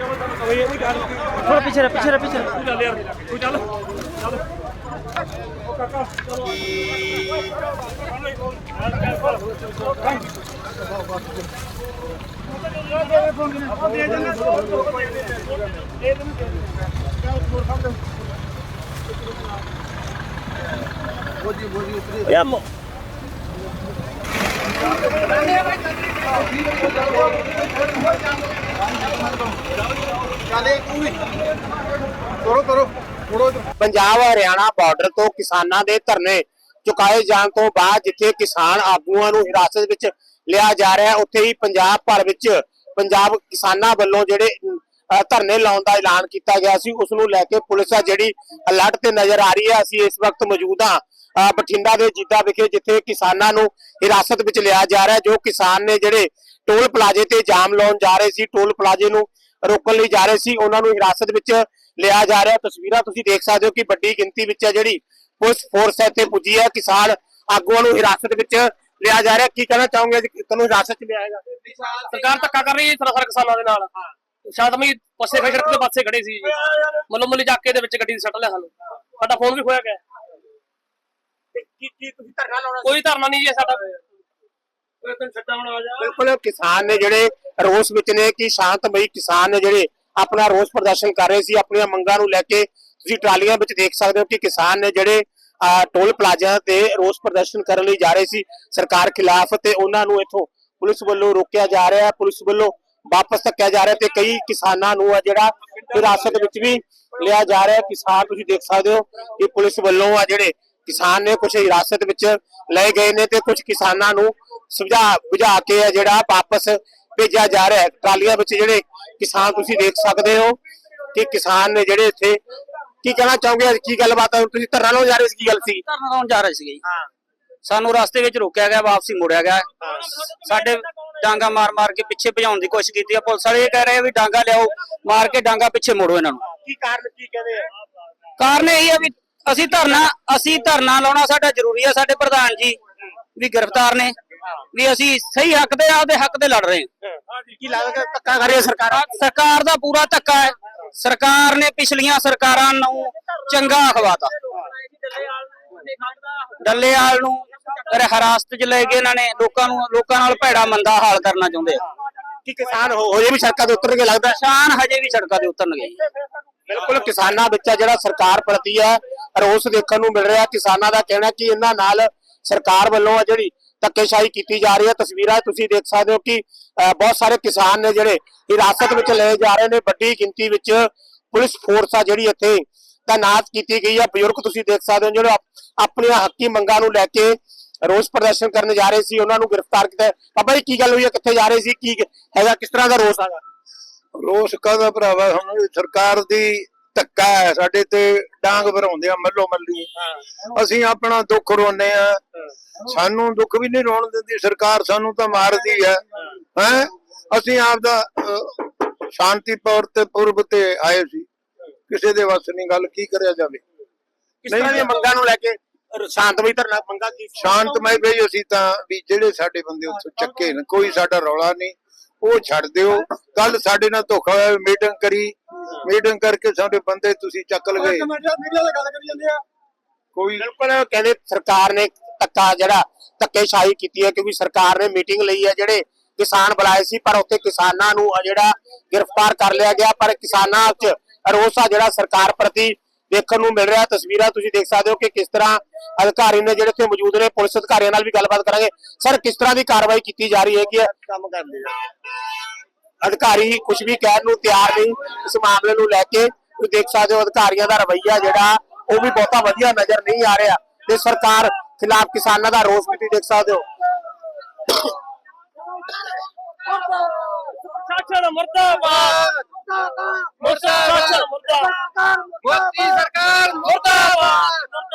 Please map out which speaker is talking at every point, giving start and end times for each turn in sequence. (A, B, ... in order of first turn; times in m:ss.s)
0:01.4-0:02.8 A
0:02.8-0:03.6 B
0:14.1-0:14.4 B
0:33.8-1:11.4 C
1:11.9-1:13.9 B
1:14.5-1:16.6 B
1:17.1-1:20.0 B
1:21.6-1:23.0 C
1:22.8-1:23.9 B
1:25.0-1:25.9 B
1:25.9-2:00.6 C
2:01.1-2:02.4 C
2:03.0-2:05.8 C
2:05.9-2:06.8 A
2:07.6-2:09.7 A
2:09.8-2:10.2 C
2:10.2-2:16.4 A
2:16.5-2:17.7 C
2:18.4-2:22.8 A
2:23.4-2:24.2 A
2:24.7-2:26.9 A
2:27.3-2:29.0 C
2:28.9-2:34.3 A
2:36.6-2:41.8 A
2:42.4-2:44.4 C
2:44.4-2:46.0 A
2:46.7-3:13.4 C
3:14.2-3:19.9 D
3:20.4-3:22.2 D
3:22.8-3:31.3 D
3:31.9-3:33.6 D
3:34.4-3:37.9 C
3:34.5-3:34.9 D
3:37.4-3:48.2 D
3:48.2-3:49.4 B
3:50.2-3:50.5 D
3:50.4-4:11.7 C
4:13.0-4:23.6 C
4:27.0-4:29.4 B
4:30.4-4:34.7 B